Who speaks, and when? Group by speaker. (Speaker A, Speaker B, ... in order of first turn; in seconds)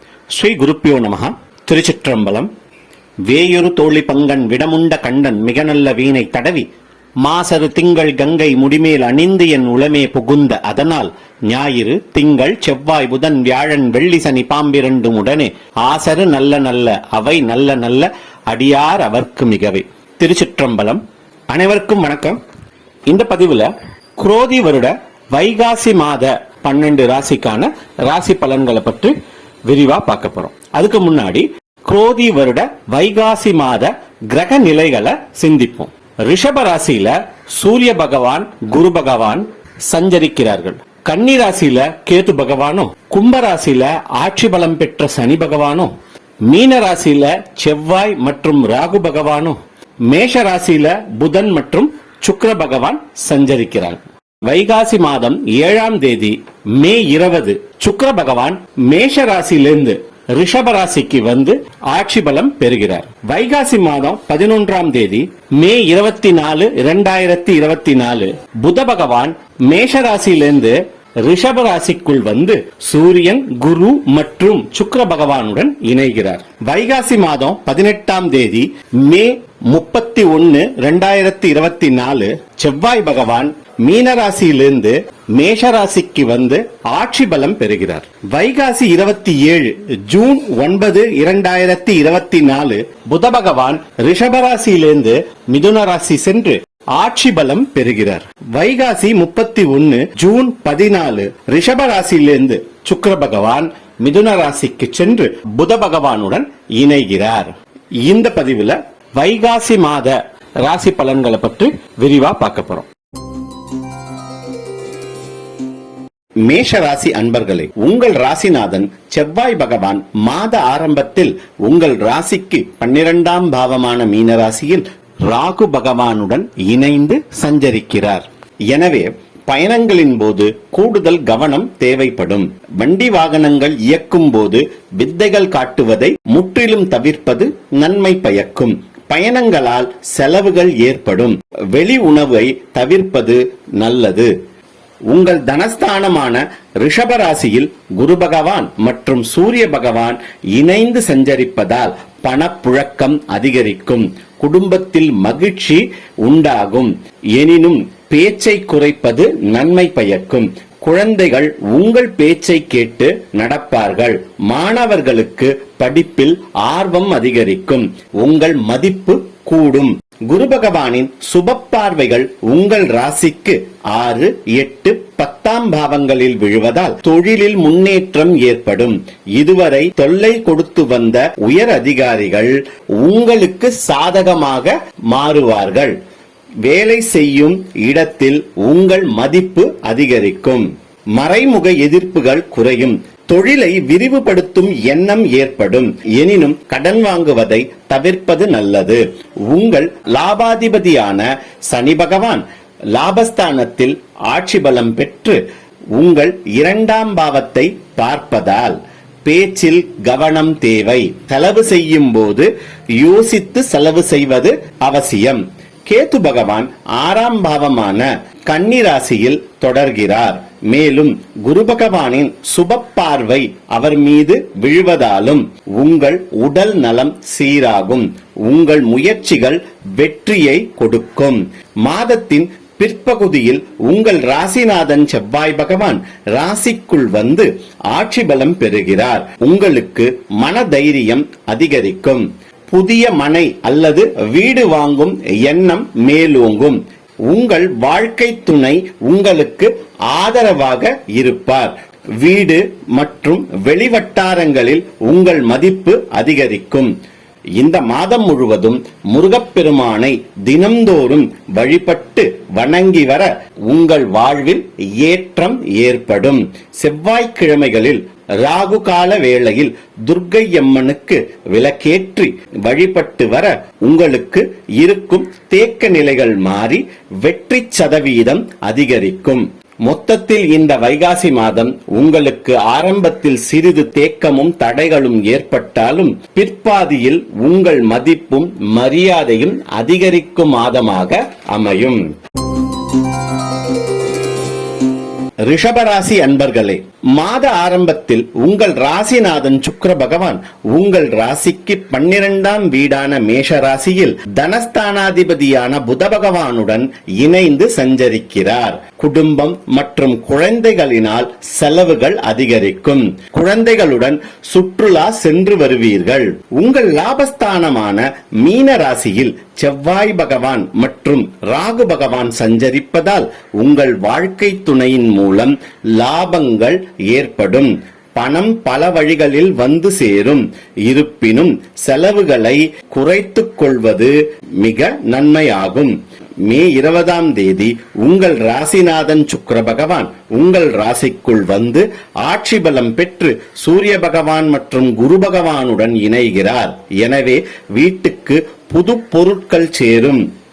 Speaker A: 0.3-2.5, 3.2-6.7, 7.2-22.4, 23.1-45.9, 46.5-107.5, 108.0-112.9, 116.5-144.3, 145.1-186.0, 186.6-205.4, 205.9-256.9, 257.6-292.1, 295.4-350.2